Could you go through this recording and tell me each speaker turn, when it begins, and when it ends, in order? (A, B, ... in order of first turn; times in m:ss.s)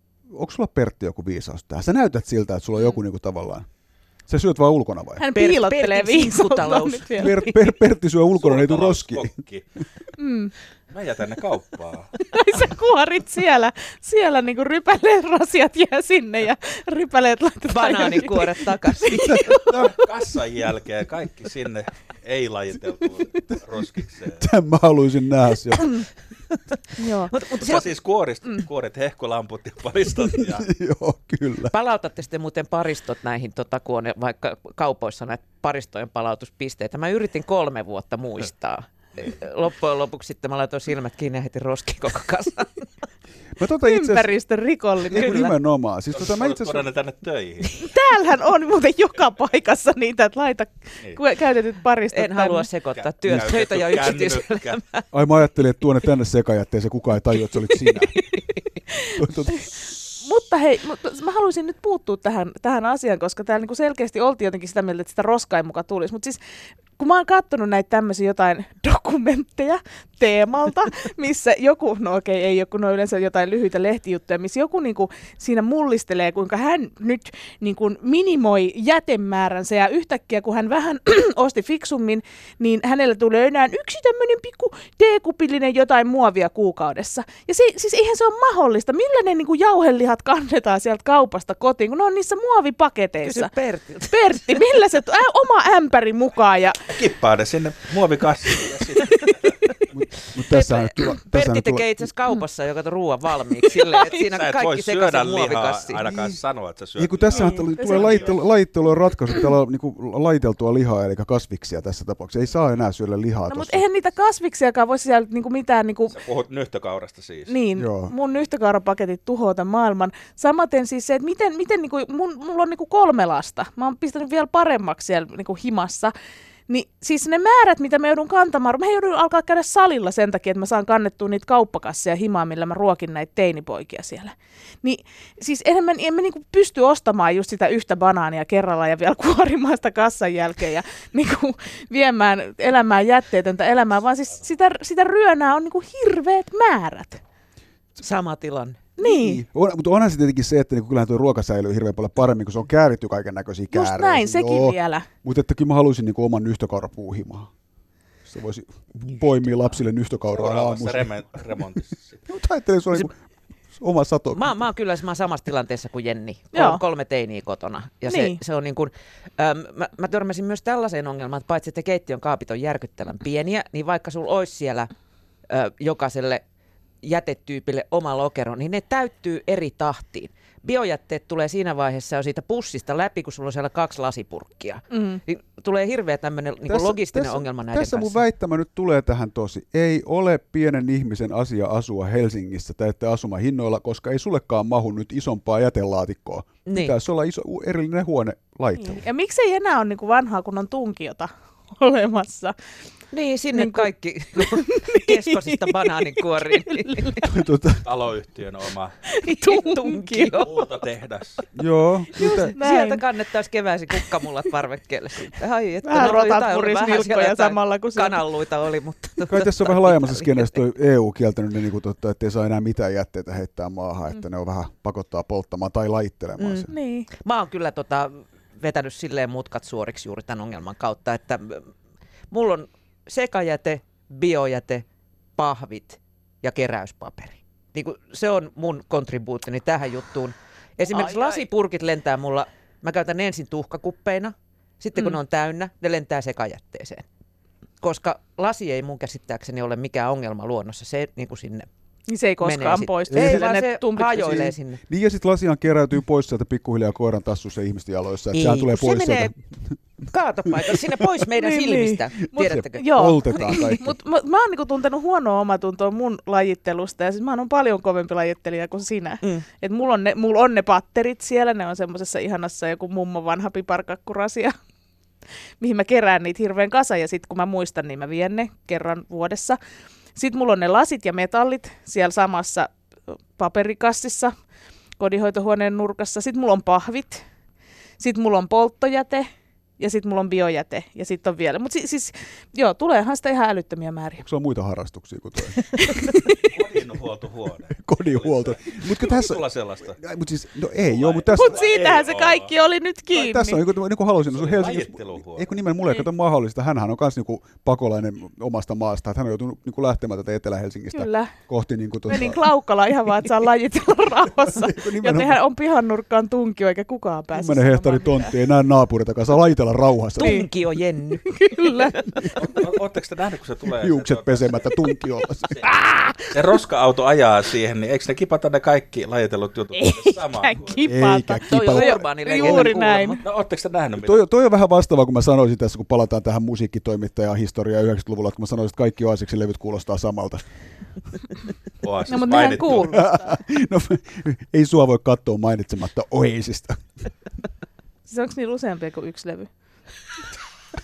0:00.3-0:03.7 A
0:04.3-0:05.2 A
0:05.2-0:07.4 B
0:05.3-0:07.5 C
0:07.2-0:09.3 A
0:08.3-0:09.6 D
0:10.2-0:10.5 B
0:10.9-0:12.1 D
0:12.2-0:19.9 B
0:17.7-0:19.6 C
0:19.2-0:19.8 A
0:19.7-0:24.5 D
0:24.4-0:26.0 A
0:27.0-0:27.3 B
0:27.3-0:27.9 C
0:27.5-0:30.6 D
0:30.4-0:31.7 A
0:31.7-0:42.8 C
0:43.6-0:44.3 A
0:43.8-0:45.5 B
0:45.1-0:46.9 A
0:45.2-0:45.5 C
0:46.1-0:47.8 D
0:47.8-0:52.7 B
0:52.1-0:55.0 C
0:53.0-0:54.8 D
0:55.1-0:58.2 A
0:59.1-0:59.7 A
1:00.1-1:06.4 B
1:07.0-1:33.5 B
1:33.2-1:34.6 C
1:34.1-1:36.8 B
1:36.8-1:39.5 D
1:39.9-1:42.1 A
1:40.4-1:46.0 C
1:43.7-1:44.1 B
1:44.2-1:48.5 D
1:46.1-1:46.4 A
1:47.0-1:53.8 A
1:47.3-1:48.2 B
1:53.5-1:56.2 B
1:56.1-1:57.5 D
1:57.5-2:06.1 B
1:57.7-1:58.1 A
2:06.7-2:27.2 B
2:28.0-2:28.8 C
2:29.0-2:29.4 B
2:29.0-2:37.5 A
2:33.7-2:35.1 B
2:38.2-2:41.1 A
2:40.3-2:42.2 D
2:42.3-2:43.2 A
2:43.7-2:44.5 A
2:44.3-2:54.9 C
2:46.5-2:46.8 B
2:48.1-2:48.4 B
2:55.5-2:56.4 C
2:57.0-3:08.2 C
3:04.9-3:05.2 B
3:06.6-3:19.0 A
3:16.7-3:17.0 C
3:18.8-3:22.5 B
3:23.1-3:27.2 C
3:23.5-3:27.3 B
3:27.2-3:27.8 A
3:27.8-3:28.9 D
3:29.1-3:30.5 B
3:29.2-3:30.5 C
3:30.4-3:31.4 D
3:31.5-3:32.6 A
3:32.1-3:33.0 B
3:32.4-3:40.4 C
3:35.8-3:38.2 B
3:39.2-3:46.7 A
3:46.4-3:51.7 C
3:46.7-3:47.1 B
3:52.3-3:54.8 C
3:55.4-4:07.0 C
4:07.8-4:11.7 C
4:12.1-4:14.5 B
4:12.4-4:14.8 C
4:13.1-4:19.4 A
4:18.3-4:19.3 C
4:20.0-4:23.6 C
4:21.4-4:34.5 B
4:22.3-4:23.9 A
4:35.6-4:39.6 B
4:40.2-4:42.7 B
4:43.4-4:44.3 B
4:45.0-4:47.2 B
4:48.0-4:49.3 B
4:49.8-4:54.2 B
4:54.2-4:55.7 A
4:55.6-4:56.5 B
4:56.4-5:00.0 D
4:57.8-5:01.6 A
5:00.8-5:02.5 D
5:01.3-5:03.6 B
5:03.1-5:12.4 A
5:04.3-5:05.5 D
5:10.9-5:11.3 B
5:12.1-5:18.4 B
5:14.5-5:15.4 A
5:17.3-5:20.4 A
5:20.2-5:21.9 C
5:20.2-5:20.5 B
5:21.3-5:22.3 B
5:22.4-5:24.7 D
5:23.8-5:25.5 A
5:25.5-5:30.9 D
5:25.8-5:26.2 B
5:29.7-5:33.2 B
5:30.8-5:32.6 A
5:31.4-5:33.2 C
5:33.2-5:34.2 D
5:34.0-5:40.4 A
5:41.8-5:43.0 D
5:42.1-5:43.4 B
5:42.9-5:46.8 A
5:48.1-5:49.5 B